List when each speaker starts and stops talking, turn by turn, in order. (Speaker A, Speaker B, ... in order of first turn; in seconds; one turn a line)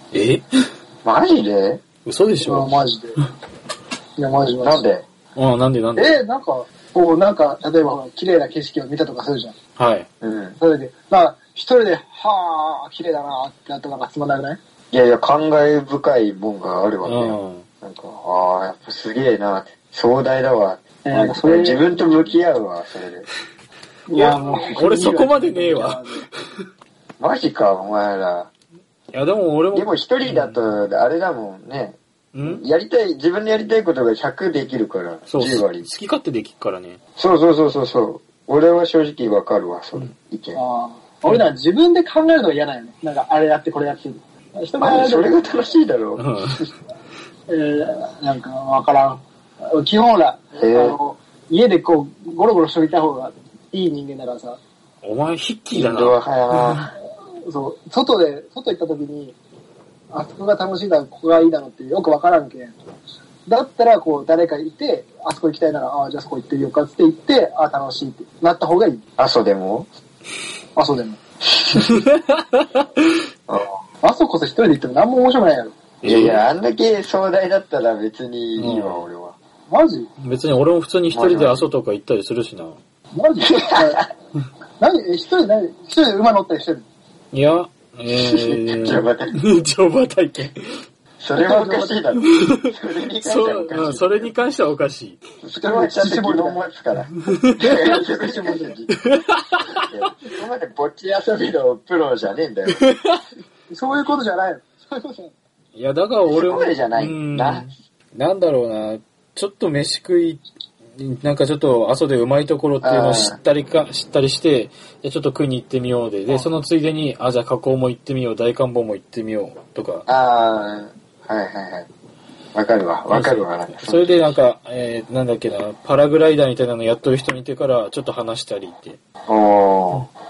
Speaker A: 0.1-0.4
Speaker B: 1.0-1.8
Speaker A: 2.0-2.8
Speaker C: 2.4-3.2
Speaker C: 4.2-4.8
Speaker B: 4.6-5.0
Speaker A: 5.4-6.2
Speaker C: 6.0-9.6
Speaker A: 9.8-10.1
Speaker B: 10.2-10.6
Speaker C: 10.6-14.6
Speaker B: 14.9-23.3
Speaker A: 17.1-17.7
Speaker C: 21.0-21.8
Speaker C: 24.1-26.3
Speaker A: 24.1-26.1
Speaker B: 27.2-28.5
Speaker A: 29.1-30.6
Speaker B: 29.7-35.9
Speaker A: 32.3-32.6
Speaker A: 35.3-37.0
Speaker B: 37.2-40.6
Speaker C: 40.5-45.4
Speaker B: 44.8-46.3
Speaker A: 46.2-46.7
Speaker C: 47.5-54.6
Speaker B: 50.5-51.0
Speaker A: 55.0-56.9
Speaker B: 55.7-56.9
Speaker C: 57.5-59.4
Speaker C: 60.1-62.8
Speaker C: 63.5-69.0
Speaker B: 69.2-69.9
Speaker C: 70.8-71.2
Speaker A: 71.7-73.0
Speaker B: 73.5-73.8
Speaker C: 74.0-75.7
Speaker A: 76.0-76.4
Speaker B: 76.0-79.4
Speaker A: 78.6-79.1
Speaker C: 79.7-80.1
Speaker A: 80.2-82.8
Speaker B: 81.1-81.7
Speaker C: 83.1-84.1
Speaker B: 83.5-84.0
Speaker C: 84.8-86.9
Speaker A: 87.3-90.8
Speaker B: 88.2-89.3
Speaker B: 91.2-94.3
Speaker C: 91.4-92.0
Speaker A: 92.3-92.6
Speaker A: 93.2-95.2
Speaker B: 95.4-98.9
Speaker C: 95.5-96.6
Speaker A: 97.3-97.7
Speaker C: 97.8-98.8
Speaker A: 99.1-99.8
Speaker B: 99.8-102.8
Speaker A: 102.8-103.2
Speaker C: 103.7-105.3
Speaker A: 105.8-110.4
Speaker B: 106.3-107.7
Speaker A: 111.0-120.1
Speaker B: 112.8-113.4
Speaker B: 120.1-121.9
Speaker B: 122.5-124.3
Speaker A: 123.1-129.0
Speaker B: 129.3-130.1